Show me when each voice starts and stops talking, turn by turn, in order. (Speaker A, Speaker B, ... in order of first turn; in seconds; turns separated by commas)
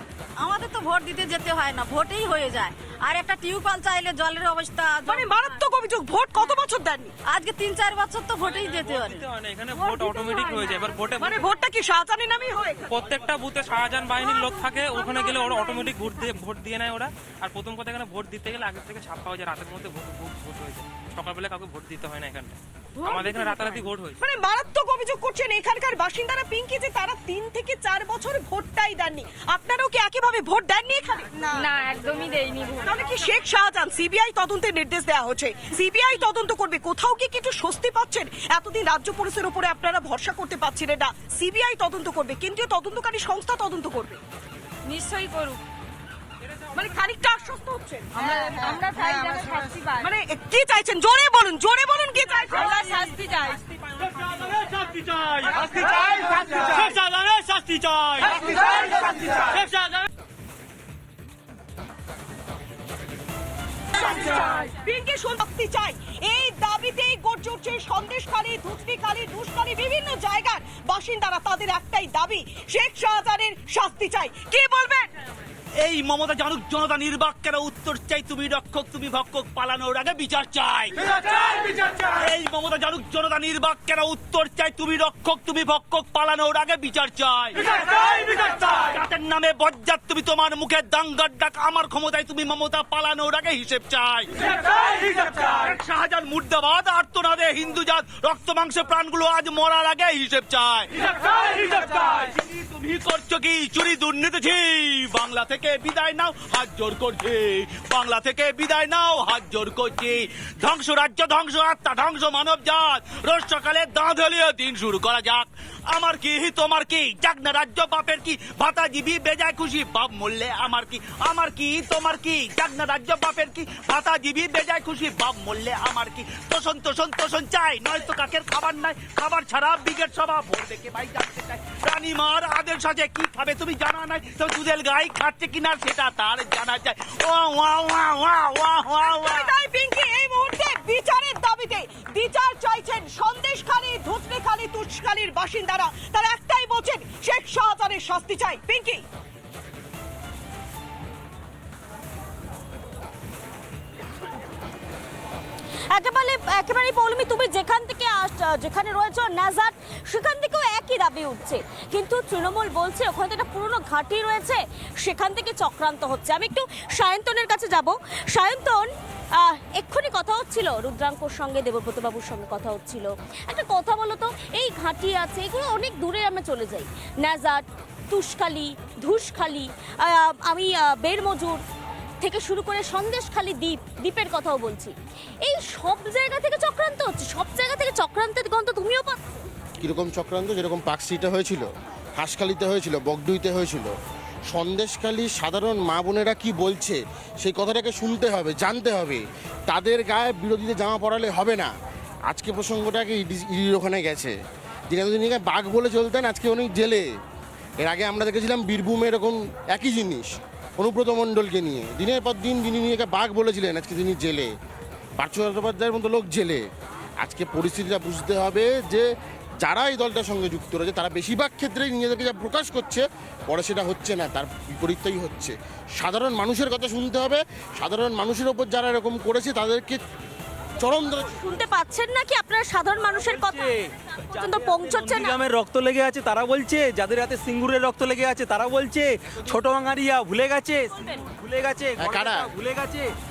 Speaker A: 0.4-5.7, Speaker B: 5.1-7.1, Speaker A: 6.3-6.7, Speaker A: 7.2-9.2, Speaker C: 8.4-11.4, Speaker B: 11.5-12.7, Speaker C: 12.9-24.2, Speaker B: 24.3-31.5, Speaker A: 31.5-33.2, Speaker B: 32.9-44.2, Speaker A: 44.9-45.6, Speaker B: 46.8-48.1, Speaker A: 48.2-50.1, Speaker B: 50.0-52.6, Speaker A: 52.3-53.6, Speaker D: 54.2-58.5, Speaker D: 59.3-60.0, Speaker B: 64.1-75.1, Speaker D: 75.8-139.6, Speaker B: 139.0-149.0, Speaker E: 155.9-181.6, Speaker E: 182.2-189.4, Speaker F: 189.8-193.9, Speaker F: 194.5-201.7, Speaker F: 202.3-204.3, Speaker F: 204.9-207.1, Speaker F: 207.8-214.5, Speaker F: 215.2-216.6, Speaker F: 217.2-219.1, Speaker F: 219.6-230.0, Speaker F: 230.8-231.3, Speaker E: 231.1-235.4, Speaker G: 233.2-243.1, Speaker E: 240.9-241.3, Speaker F: 242.0-242.5